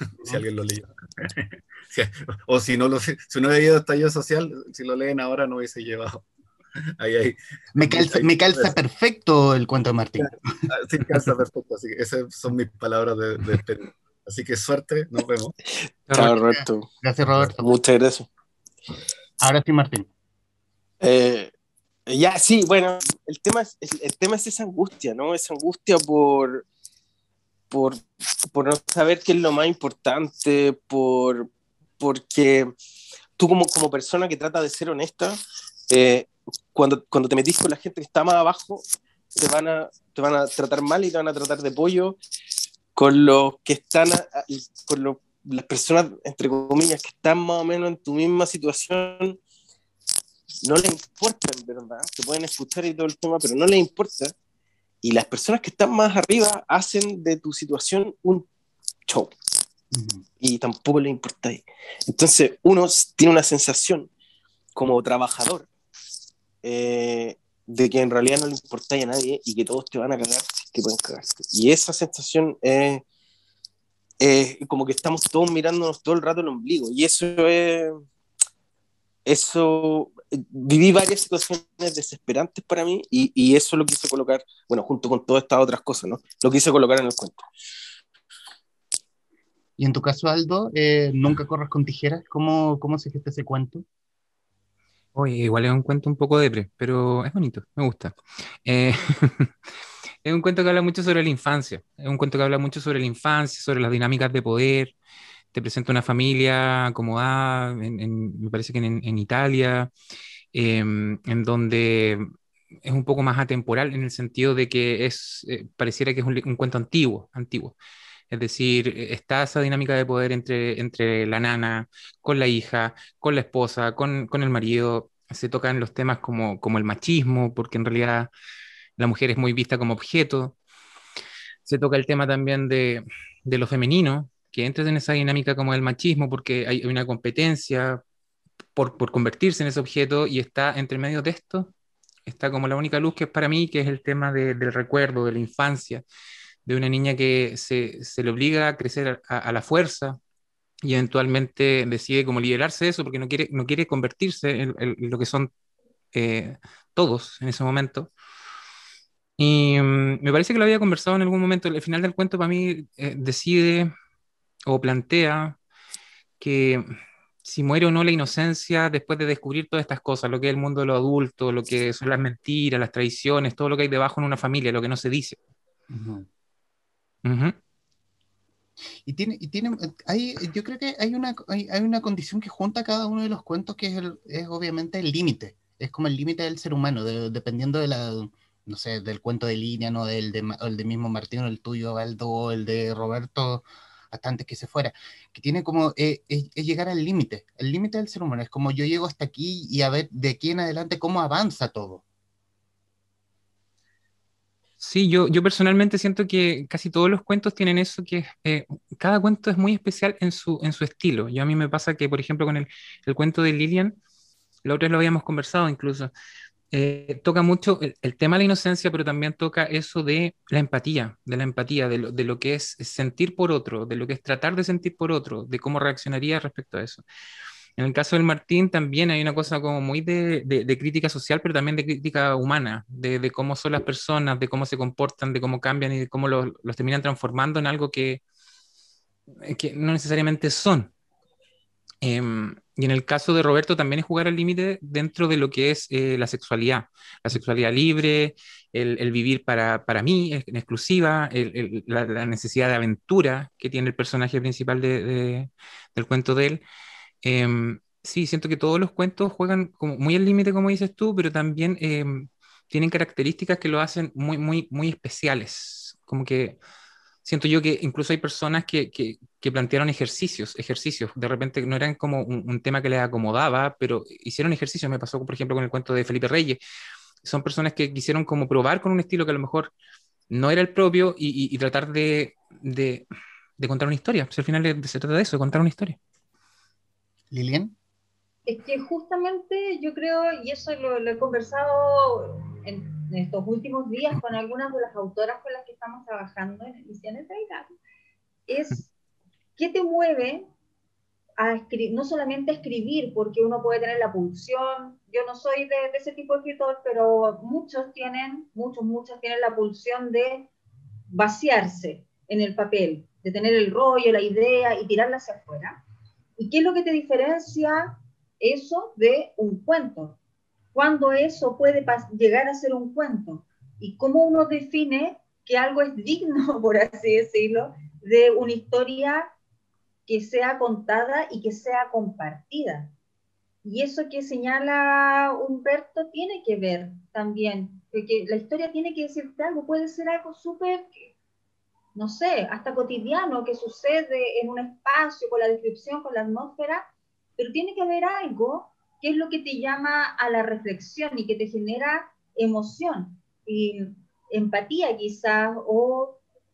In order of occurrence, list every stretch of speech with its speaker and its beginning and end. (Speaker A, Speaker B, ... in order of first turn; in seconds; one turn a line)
Speaker A: 0.2-6.3
Speaker A: 7.0-8.7
Speaker B: 7.8-10.4
Speaker A: 10.2-15.6
Speaker C: 16.1-16.9
Speaker B: 16.2-17.8
Speaker C: 17.6-18.3
Speaker B: 19.4-20.1
Speaker C: 21.0-21.5
Speaker C: 22.1-26.6
Speaker C: 27.7-32.7
Speaker C: 33.4-35.4
Speaker C: 35.9-38.8
Speaker C: 39.4-42.2
Speaker C: 43.0-49.4
Speaker C: 50.6-54.3
Speaker C: 55.0-58.5
Speaker C: 59.1-59.3
Speaker B: 59.9-60.2
Speaker C: 60.4-64.1
Speaker C: 64.8-65.7
Speaker C: 66.6-73.0
Speaker C: 74.2-77.9
Speaker C: 79.3-87.4
Speaker B: 89.8-93.8
Speaker D: 95.2-99.5
Speaker D: 100.2-104.9
Speaker D: 105.5-109.9
Speaker D: 110.5-112.3
Speaker D: 112.8-117.8
Speaker D: 118.3-128.3
Speaker D: 129.0-130.6
Speaker D: 131.7-138.0
Speaker D: 138.8-141.7
Speaker D: 142.3-146.0
Speaker D: 146.7-150.2
Speaker D: 150.8-155.5
Speaker D: 156.1-158.1
Speaker D: 159.4-163.9
Speaker D: 164.7-165.6
Speaker D: 166.4-166.9
Speaker D: 167.4-175.4
Speaker B: 175.9-176.3
Speaker D: 177.2-177.6
Speaker B: 179.1-202.0
Speaker D: 204.8-214.0
Speaker D: 214.6-216.1
Speaker D: 216.7-227.0
Speaker D: 227.8-238.2
Speaker D: 239.4-240.9
Speaker D: 242.0-256.6
Speaker D: 257.2-266.6
Speaker D: 267.2-276.6
Speaker D: 277.2-279.7
Speaker D: 280.3-283.1
Speaker D: 283.6-286.0
Speaker B: 287.3-287.7
Speaker E: 288.5-297.8
Speaker E: 298.5-298.9
Speaker E: 299.6-300.4
Speaker E: 301.4-310.5
Speaker E: 311.1-315.8
Speaker E: 316.4-320.2
Speaker E: 320.7-329.3
Speaker E: 330.1-332.9
Speaker E: 333.6-341.1
Speaker E: 341.9-356.2